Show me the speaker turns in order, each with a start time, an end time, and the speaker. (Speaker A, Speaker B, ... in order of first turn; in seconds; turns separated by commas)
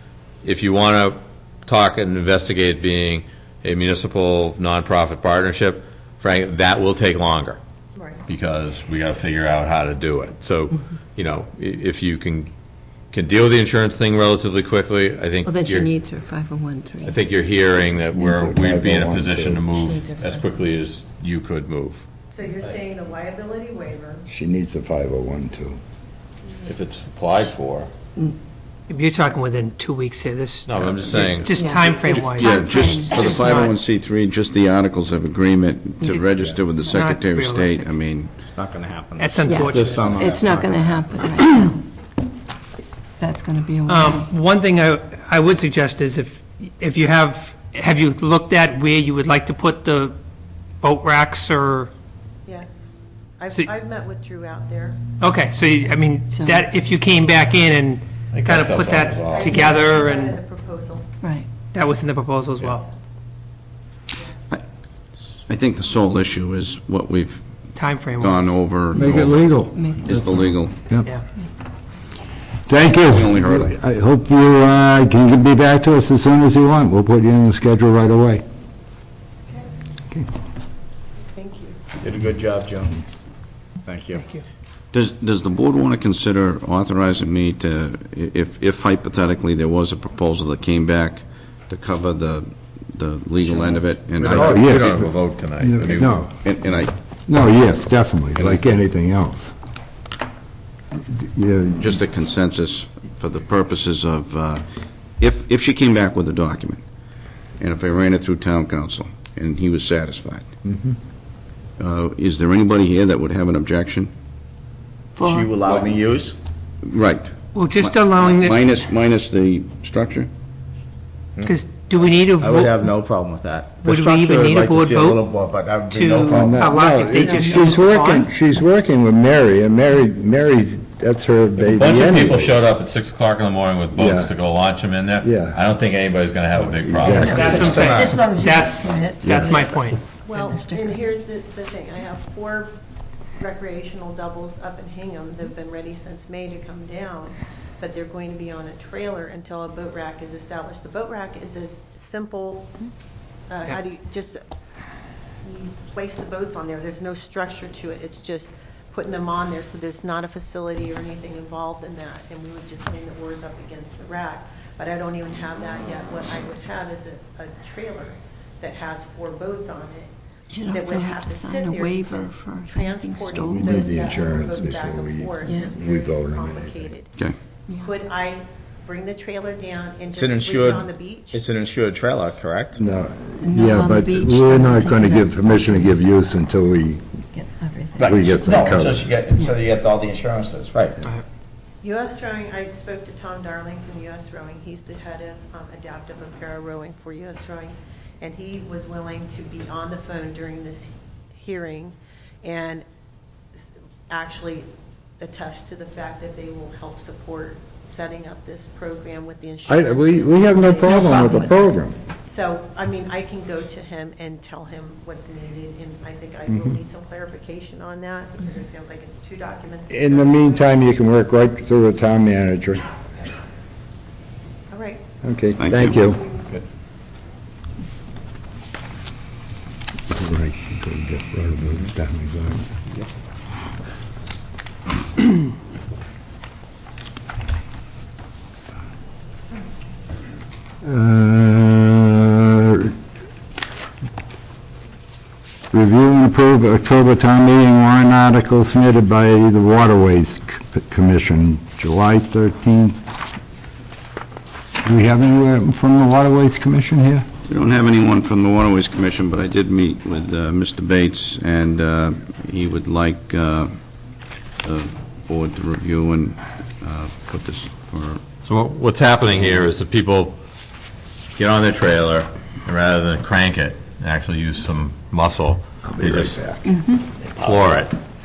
Speaker A: 0.4-7.6, Speaker B: 8.0-8.2, Speaker A: 8.3-12.5, Speaker A: 13.1-15.9, Speaker C: 15.5-17.2, Speaker A: 17.0-22.1, Speaker D: 18.1-19.7, Speaker C: 19.7-20.4, Speaker B: 22.3-24.3, Speaker D: 24.3-25.8, Speaker A: 26.6-27.9, Speaker E: 28.9-33.8, Speaker A: 30.7-31.5, Speaker F: 31.1-38.3, Speaker C: 31.5-33.2, Speaker E: 36.8-37.9, Speaker G: 38.5-41.0, Speaker E: 39.2-40.2, Speaker C: 39.5-41.8, Speaker C: 43.2-44.3, Speaker E: 43.9-50.2, Speaker E: 50.8-51.9, Speaker B: 52.5-55.0, Speaker E: 55.2-60.4, Speaker C: 56.3-56.7, Speaker A: 58.3-59.6, Speaker B: 59.3-61.1, Speaker C: 61.2-61.5, Speaker E: 61.7-62.9, Speaker F: 65.5-67.4, Speaker E: 67.8-68.6, Speaker F: 68.2-70.8, Speaker D: 68.9-70.4, Speaker D: 72.7-78.4, Speaker F: 72.9-73.7, Speaker B: 81.3-81.8, Speaker G: 82.0-82.9, Speaker G: 83.8-84.3, Speaker F: 84.9-94.6, Speaker G: 93.5-93.9, Speaker A: 94.2-96.2, Speaker D: 94.2-96.3, Speaker F: 96.4-96.9, Speaker D: 97.3-99.5, Speaker F: 98.4-98.7, Speaker D: 101.0-102.0, Speaker F: 101.8-104.6, Speaker F: 105.2-106.8, Speaker F: 107.6-110.5, Speaker D: 110.7-111.0, Speaker F: 111.8-114.1, Speaker C: 115.2-115.5, Speaker G: 115.2-116.4, Speaker F: 115.6-116.0, Speaker F: 116.8-120.3, Speaker E: 117.5-118.6, Speaker E: 121.5-122.9, Speaker G: 122.4-126.8, Speaker E: 123.8-125.3, Speaker E: 125.9-128.3, Speaker D: 126.3-132.7, Speaker A: 131.6-137.6, Speaker D: 133.9-134.3, Speaker D: 135.2-135.6, Speaker D: 136.8-137.8, Speaker C: 137.1-139.8, Speaker E: 137.2-140.0, Speaker G: 137.6-138.3, Speaker F: 139.2-139.6, Speaker B: 140.2-142.8, Speaker C: 140.3-141.0, Speaker B: 143.4-152.8, Speaker B: 153.5-154.4, Speaker B: 155.4-170.1, Speaker C: 170.5-174.0, Speaker B: 170.7-177.2, Speaker D: 173.4-176.9, Speaker C: 175.4-175.8, Speaker C: 177.7-177.9, Speaker B: 177.8-181.4, Speaker G: 180.1-182.8, Speaker D: 182.8-187.0, Speaker C: 183.4-185.9, Speaker C: 187.3-188.1, Speaker G: 188.0-191.0, Speaker D: 188.0-189.1, Speaker B: 191.8-202.8, Speaker B: 203.6-204.7, Speaker B: 205.2-211.7, Speaker D: 209.7-212.0, Speaker B: 212.2-220.7, Speaker D: 216.5-216.8, Speaker D: 219.9-222.8, Speaker B: 224.7-225.0, Speaker D: 225.2-226.2, Speaker F: 225.6-226.1, Speaker D: 230.1-232.7, Speaker D: 240.8-242.9, Speaker D: 245.7-253.0, Speaker D: 254.8-257.3, Speaker F: 257.5-264.0, Speaker F: 264.6-268.2, Speaker A: 268.4-270.4, Speaker A: 271.4-276.4, Speaker D: 275.8-276.6, Speaker C: 276.7-277.0, Speaker A: 277.2-278.0